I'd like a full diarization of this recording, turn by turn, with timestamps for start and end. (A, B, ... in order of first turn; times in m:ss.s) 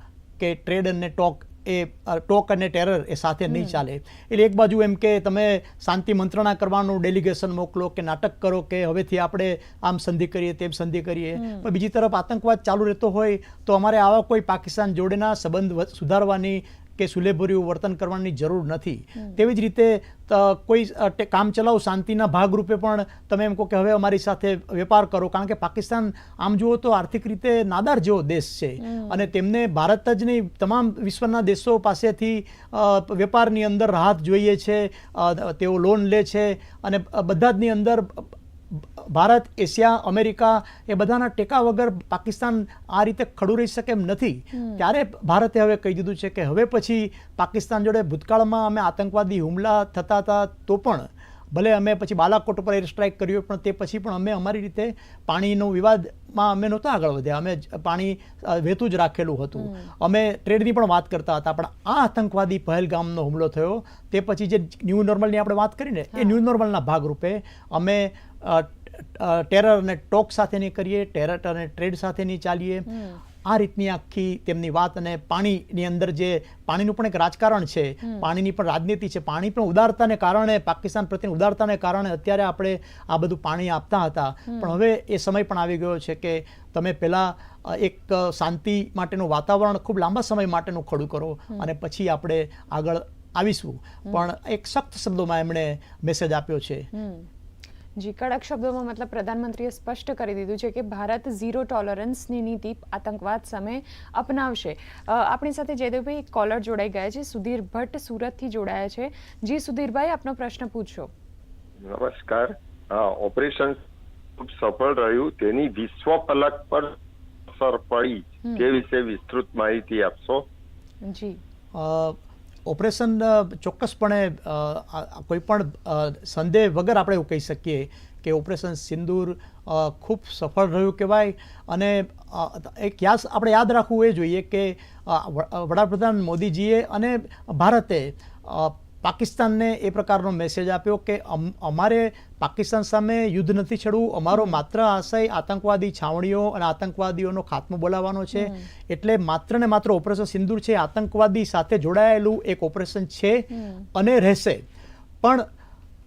0:00.4-1:12.9 A
0:03.5-0:03.8 B
0:11.4-0:11.7 B
0:19.2-0:19.4 B
0:28.8-0:29.3 B
0:44.5-0:44.9 B
0:59.6-0:59.9 B
1:12.9-1:13.2 B
1:13.4-1:36.9 A
1:18.0-1:18.3 B
1:24.5-1:24.8 B
1:36.9-1:37.3 B
1:38.0-1:51.1 B
1:51.8-1:53.8 C
1:54.4-1:57.0 C
1:57.5-2:00.5 C
1:58.4-1:58.7 B
2:01.0-2:01.4 B
2:01.7-2:34.6 A
2:24.3-2:24.6 B
2:28.3-2:28.7 B
2:33.5-2:33.9 B
2:35.2-2:35.5 A